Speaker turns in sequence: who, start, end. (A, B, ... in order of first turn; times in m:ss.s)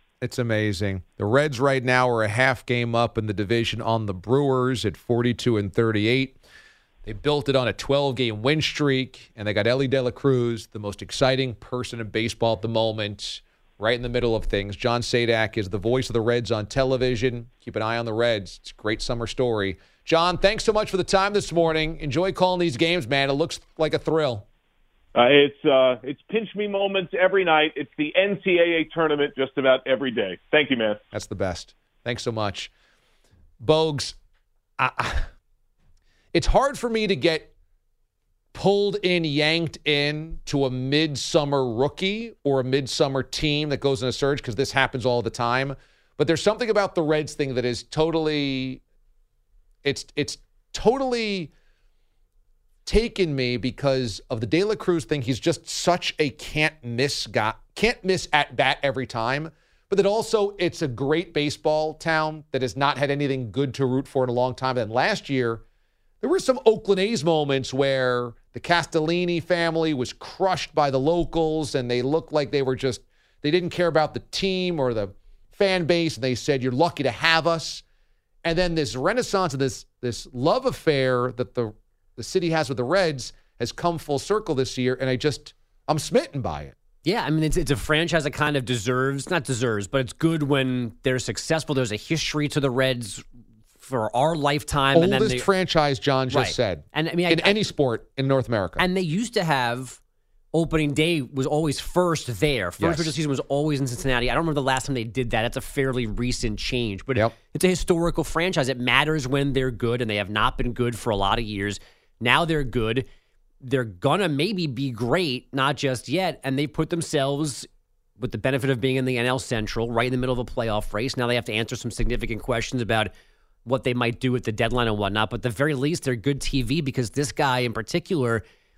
0:00.2-0:06.4 A
0:07.0-0:24.4 A
0:25.1-0:31.0 B
0:31.1-0:32.7 A
0:33.6-0:34.2 A
0:34.8-0:35.3 A
0:36.3-0:37.5 A
0:38.5-0:48.8 A
0:49.8-0:51.5 A
0:52.9-1:05.6 A
1:06.2-1:17.8 A
1:18.4-1:26.7 A
1:27.0-1:33.2 C
1:33.8-1:35.4 C
1:34.9-1:38.9 A
1:36.3-1:37.6 C
1:38.8-1:40.0 C
1:40.5-1:53.1 C
1:42.8-1:43.2 A
1:53.6-1:57.7 C
1:58.2-2:03.1 C
2:03.6-2:08.4 C